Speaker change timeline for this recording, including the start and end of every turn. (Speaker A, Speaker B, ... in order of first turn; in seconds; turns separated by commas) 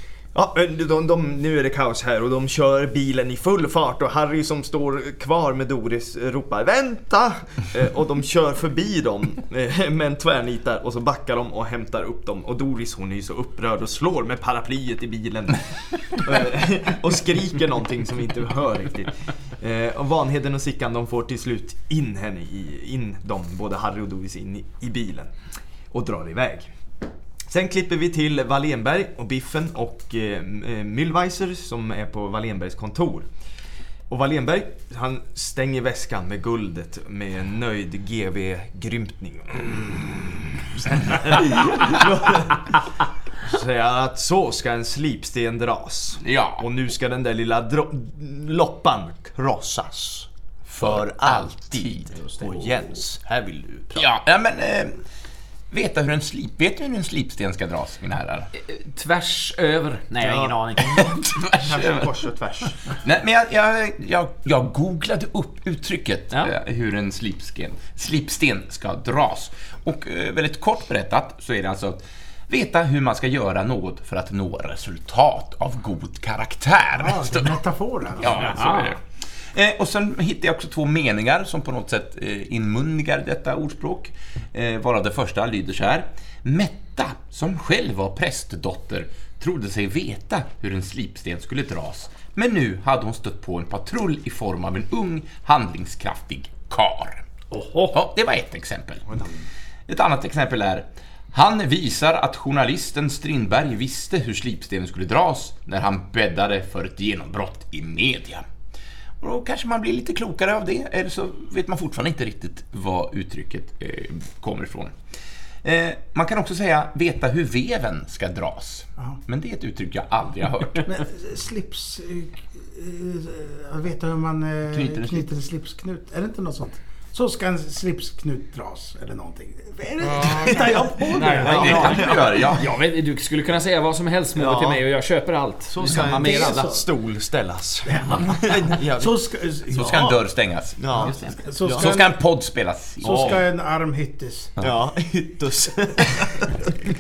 Speaker A: 0.3-25.3, Speaker A: 25.9-26.7, Speaker A: 27.5-33.3, Speaker A: 34.1-54.1, Speaker B: 46.2-46.6, Speaker B: 50.8-52.1, Speaker C: 52.2-52.5, Speaker B: 54.0-55.0, Speaker B: 55.7-58.5, Speaker C: 58.6-60.9, Speaker A: 60.2-62.8, Speaker B: 60.8-62.1, Speaker B: 63.0-77.6, Speaker D: 77.0-78.8, Speaker B: 78.2-79.0, Speaker C: 78.2-79.0, Speaker B: 79.5-97.2, Speaker C: 97.5-98.0, Speaker B: 97.9-99.2, Speaker B: 99.9-108.4, Speaker B: 109.2-115.0, Speaker B: 115.6-120.9, Speaker D: 120.8-132.3, Speaker B: 124.7-125.3, Speaker C: 130.0-136.7, Speaker A: 130.1-132.6, Speaker B: 131.4-132.7, Speaker A: 134.3-134.9, Speaker A: 135.7-139.2, Speaker D: 135.9-136.8, Speaker D: 137.8-140.2, Speaker B: 139.7-141.1, Speaker A: 140.8-142.1, Speaker C: 141.0-141.4, Speaker D: 141.4-142.1, Speaker B: 141.6-143.4, Speaker A: 143.0-143.4, Speaker D: 143.0-144.5, Speaker A: 144.6-146.7